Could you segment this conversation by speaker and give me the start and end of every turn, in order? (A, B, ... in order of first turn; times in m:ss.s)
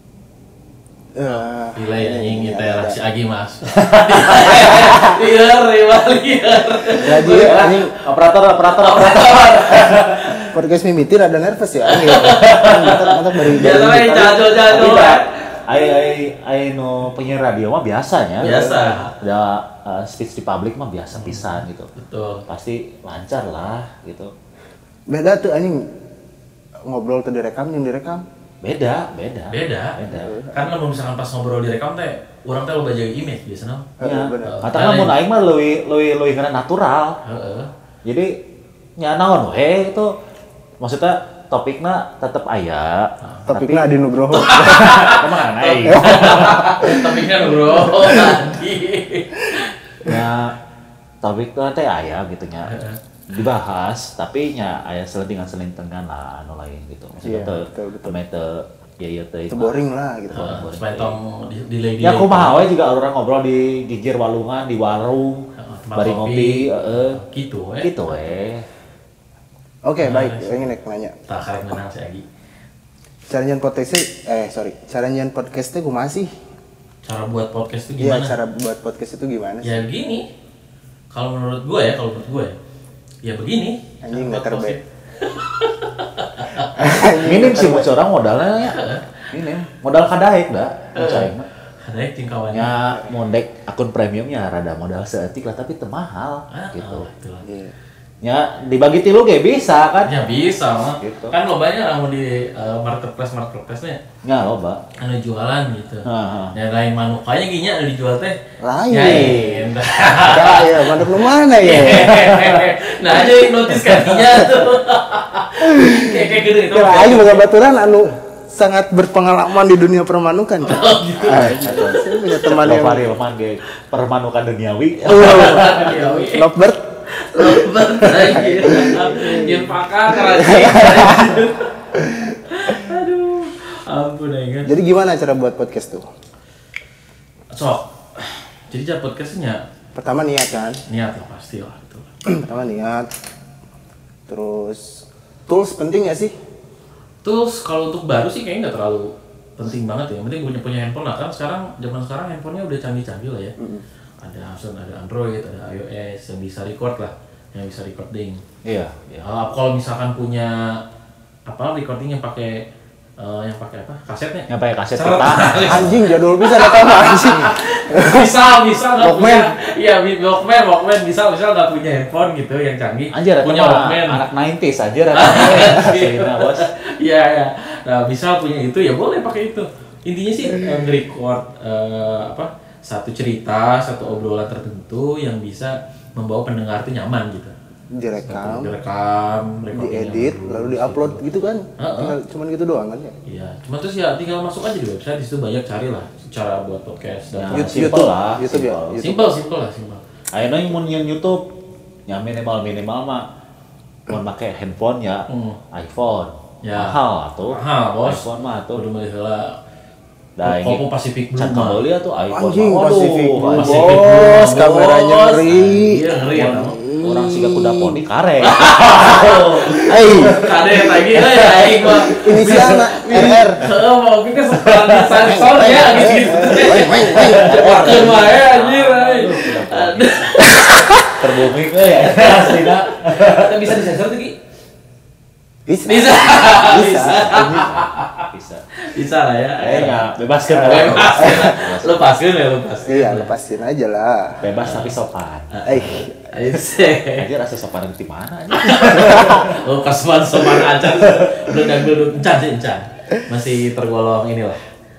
0:01.2-0:03.0 A
0:01.8-0:07.7 B
0:03.7-0:04.8 C
0:07.0-0:08.0 A
0:07.2-0:10.4 C
0:08.8-0:10.5 B
0:10.4-0:14.4 A
0:11.9-0:15.5 B
0:12.4-0:13.0 C
0:13.6-0:21.9 C
0:18.4-0:19.1 B
0:18.4-0:18.9 A
0:21.2-0:22.4 B
0:22.5-0:24.3 C
0:25.1-0:25.9 A
0:26.9-0:28.2 A
0:28.6-0:30.3 C
0:29.5-0:30.0 B
0:30.1-0:30.6 A
0:30.5-0:33.9 B
0:34.0-0:34.7 A
0:34.0-0:37.2 C
0:34.4-0:35.2 B
0:37.2-0:37.7 B
0:38.0-0:38.4 C
0:39.0-0:40.1 C
0:40.8-0:43.9 C
0:43.2-0:43.5 B
0:43.5-0:45.1 A
0:44.3-0:49.7 B
0:44.4-0:46.9 C
0:45.9-0:48.4 A
0:50.0-0:50.6 C
0:51.2-0:52.8 C
0:52.6-0:53.0 B
0:53.3-0:59.8 C
0:57.2-0:58.2 A
0:59.5-1:00.5 A
1:00.3-1:01.2 C
1:00.3-1:02.7 B
1:02.0-1:07.2 C
1:05.6-1:08.1 B
1:07.8-1:08.7 C
1:09.8-1:11.2 A
1:10.0-1:10.7 B
1:11.3-1:12.2 B
1:13.3-1:16.3 A
1:17.0-1:18.4 B
1:18.0-1:19.8 A
1:19.6-1:20.3 B
1:21.1-1:22.6 B
1:23.2-1:26.9 B
1:24.0-1:24.8 A
1:26.8-1:27.9 A
1:27.0-1:31.5 C
1:28.6-1:29.2 B
1:31.0-1:32.8 B
1:32.5-1:37.1 C
1:36.5-1:37.5 B
1:37.4-1:37.7 A
1:38.2-1:40.2 C
1:40.0-1:44.0 B
1:40.8-1:41.4 C
1:44.2-1:44.8 C
1:45.0-1:48.4 B
1:46.0-1:46.6 C
1:48.6-1:49.6 A
1:48.9-1:57.5 B
1:49.0-1:49.5 C
1:50.2-1:52.3 A
1:51.9-1:52.6 C
1:54.0-1:54.6 A
1:55.6-2:03.1 A
2:00.6-2:02.1 B
2:01.3-2:05.9 C
2:05.0-2:06.5 B
2:05.1-2:06.8 A
2:07.1-2:11.7 B
2:07.4-2:11.4 A
2:12.1-2:12.4 A
2:12.5-2:14.7 B
2:14.7-2:16.0 A
2:17.5-2:19.6 B
2:20.0-2:20.8 A
2:20.9-2:22.1 B
2:22.3-2:23.1 A
2:24.3-2:26.3 A
2:27.2-2:33.6 B
2:33.6-2:33.8 A
2:34.2-2:38.4 B
2:38.6-2:39.3 C
2:39.2-2:40.8 B
2:41.5-2:54.2 B
2:44.5-2:46.0 C
2:45.6-2:48.4 A
2:49.0-2:49.5 A
2:53.1-2:56.7 C
2:55.1-3:07.5 B
3:07.9-3:08.8 A
3:08.3-3:11.2 B
3:09.7-3:13.2 A
3:11.8-3:12.2 B
3:13.3-3:17.9 B
3:17.4-3:19.0 C
3:17.5-3:19.3 A
3:19.0-3:20.0 B
3:20.3-3:21.5 C
3:22.1-3:23.3 C
3:24.1-3:28.8 C
3:25.3-3:25.6 B
3:26.6-3:29.6 B
3:30.4-3:30.8 C
3:30.4-3:31.8 B
3:31.4-3:34.3 C
3:32.3-3:36.0 A
3:33.4-3:36.8 B
3:36.3-3:40.5 C
3:36.8-3:38.0 A
3:38.4-3:51.2 B
3:39.8-3:40.4 A
3:41.2-3:42.7 C
3:42.1-3:43.6 A
3:44.5-3:45.2 C
3:45.3-3:48.2 A
3:47.0-3:50.5 C
3:51.1-3:53.8 C
3:51.8-3:54.4 B
3:55.7-3:57.6 A
3:55.9-3:58.3 B
3:57.0-3:58.6 C
3:58.8-4:03.3 B
3:59.6-4:02.0 C
4:00.6-4:01.6 A
4:02.9-4:04.4 A
4:04.4-4:05.5 C
4:04.6-4:05.0 B
4:05.5-4:07.3 B
4:05.7-4:06.4 A
4:07.2-4:09.6 C
4:08.5-4:14.6 B
4:11.0-4:11.4 C